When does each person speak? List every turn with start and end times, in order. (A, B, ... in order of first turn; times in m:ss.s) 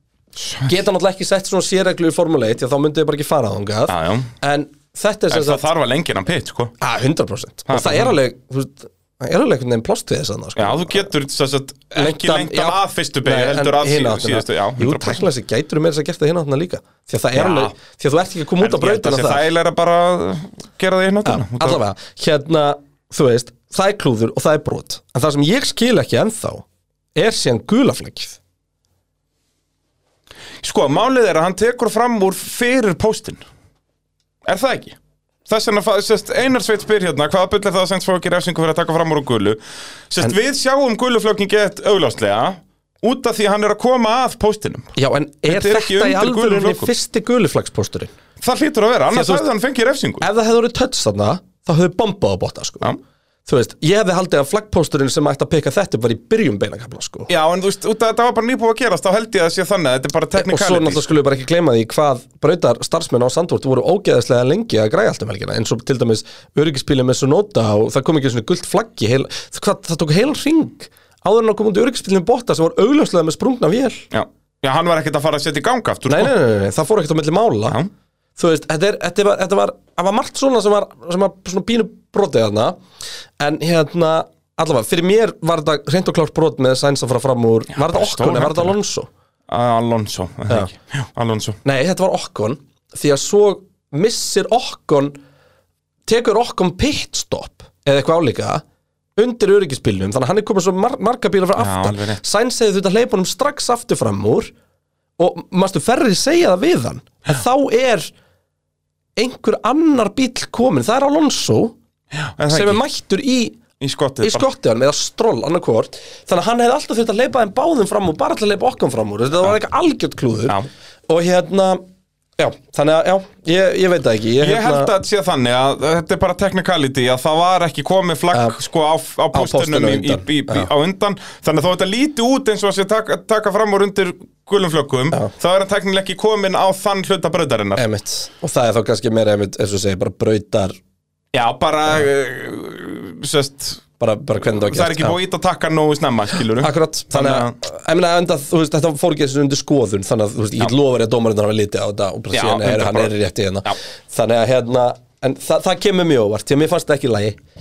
0:00.4-0:00.7 A
0:00.6-0:05.6 B
0:03.9-0:04.3 A
0:05.3-0:06.7 A
0:06.8-0:11.1 B
0:07.7-0:08.1 A
0:10.6-0:15.3 A
0:11.9-0:19.4 B
0:17.3-0:17.7 A
0:18.6-0:21.8 A
0:21.2-0:28.4 B
0:30.6-0:33.4 A
0:34.4-0:45.0 A
0:45.0-0:48.1 B
0:45.5-0:46.9 A
0:48.4-0:50.2 A
0:49.1-0:49.4 B
0:50.2-0:52.9 B
0:53.4-0:57.3 B
0:57.3-1:01.0 A
1:00.4-1:14.1 B
1:14.1-1:16.3 A
1:16.1-1:17.8 B
1:18.4-1:22.8 B
1:23.4-1:29.1 B
1:27.7-1:28.7 A
1:29.5-1:31.6 A
1:31.6-1:35.2 B
1:36.1-1:38.6 B
1:39.2-1:44.5 B
1:41.6-1:42.2 A
1:45.2-1:48.1 B
1:49.2-1:51.7 B
1:52.1-1:52.8 A
1:52.5-1:53.6 B
1:53.8-1:54.4 A
1:54.2-2:01.8 B
2:02.4-2:04.9 B
2:04.4-2:17.8 A
2:08.3-2:08.6 B
2:09.3-2:10.7 B
2:17.8-2:20.8 B
2:21.3-2:23.8 A
2:24.0-2:25.2 B
2:24.4-2:27.5 A
2:26.6-2:37.4 B
2:32.3-2:33.1 A